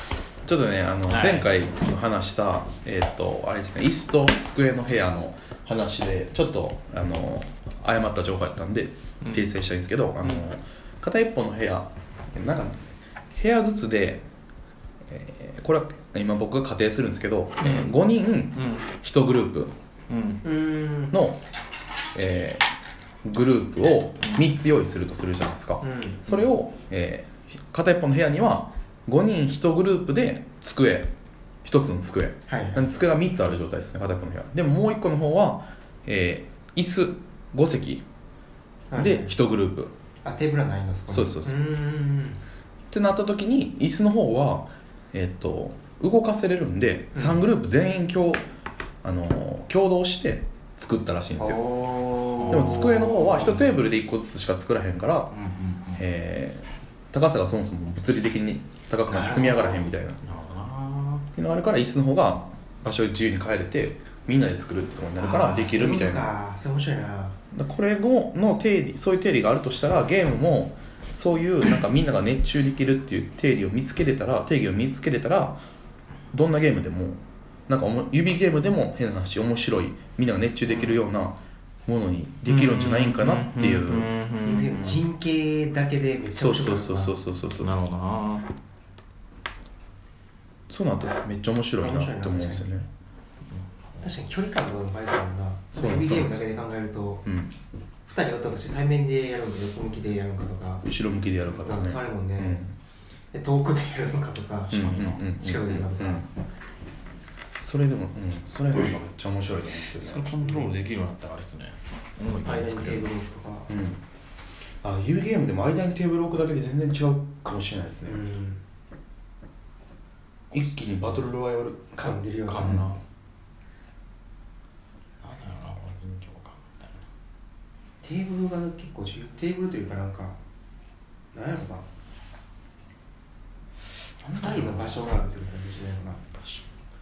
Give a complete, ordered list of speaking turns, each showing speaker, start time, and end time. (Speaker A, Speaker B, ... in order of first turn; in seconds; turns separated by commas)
Speaker A: 0.5-12.8, Speaker B: 1.1-1.5, Speaker B: 9.2-9.5, Speaker A: 13.3-14.2, Speaker A: 15.0-19.8, Speaker B: 17.6-18.0, Speaker B: 18.5-18.9, Speaker B: 20.1-20.4, Speaker C: 20.4-21.1, Speaker A: 21.1-21.4, Speaker A: 22.1-22.6, Speaker A: 23.2-31.1, Speaker C: 25.8-26.2, Speaker A: 31.6-38.0, Speaker C: 32.5-32.9, Speaker C: 38.9-39.4, Speaker A: 38.9-39.9, Speaker C: 40.2-42.4, Speaker A: 41.1-41.5, Speaker A: 42.9-48.4, Speaker C: 47.1-47.4, Speaker A: 49.0-51.6, Speaker C: 51.4-53.2, Speaker B: 52.3-53.8, Speaker A: 52.5-55.3, Speaker B: 55.3-56.0, Speaker A: 56.0-60.2, Speaker C: 59.1-59.9, Speaker B: 60.2-61.2, Speaker A: 61.3-66.3, Speaker C: 65.2-67.4, Speaker A: 67.5-75.6, Speaker A: 76.3-84.1, Speaker B: 82.4-85.0, Speaker C: 84.4-87.1, Speaker A: 86.3-87.7, Speaker B: 87.6-88.5, Speaker A: 90.7-92.9, Speaker C: 91.8-92.7, Speaker C: 94.0-97.2, Speaker A: 95.7-96.4, Speaker A: 97.2-97.5, Speaker C: 98.1-100.9, Speaker A: 100.9-102.8, Speaker C: 101.5-102.6, Speaker C: 103.3-106.3, Speaker A: 104.7-106.3, Speaker B: 104.7-105.2, Speaker A: 107.6-110.3, Speaker B: 109.8-113.1, Speaker C: 112.4-113.7, Speaker A: 113.7-114.0, Speaker A: 114.8-118.2, Speaker C: 118.0-118.6, Speaker A: 120.5-122.9, Speaker B: 120.9-121.2, Speaker C: 122.0-122.9, Speaker B: 122.0-123.0, Speaker B: 125.2-127.0, Speaker C: 128.0-130.4, Speaker C: 131.3-131.8, Speaker B: 134.2-135.0, Speaker C: 134.3-136.2, Speaker B: 136.3-136.7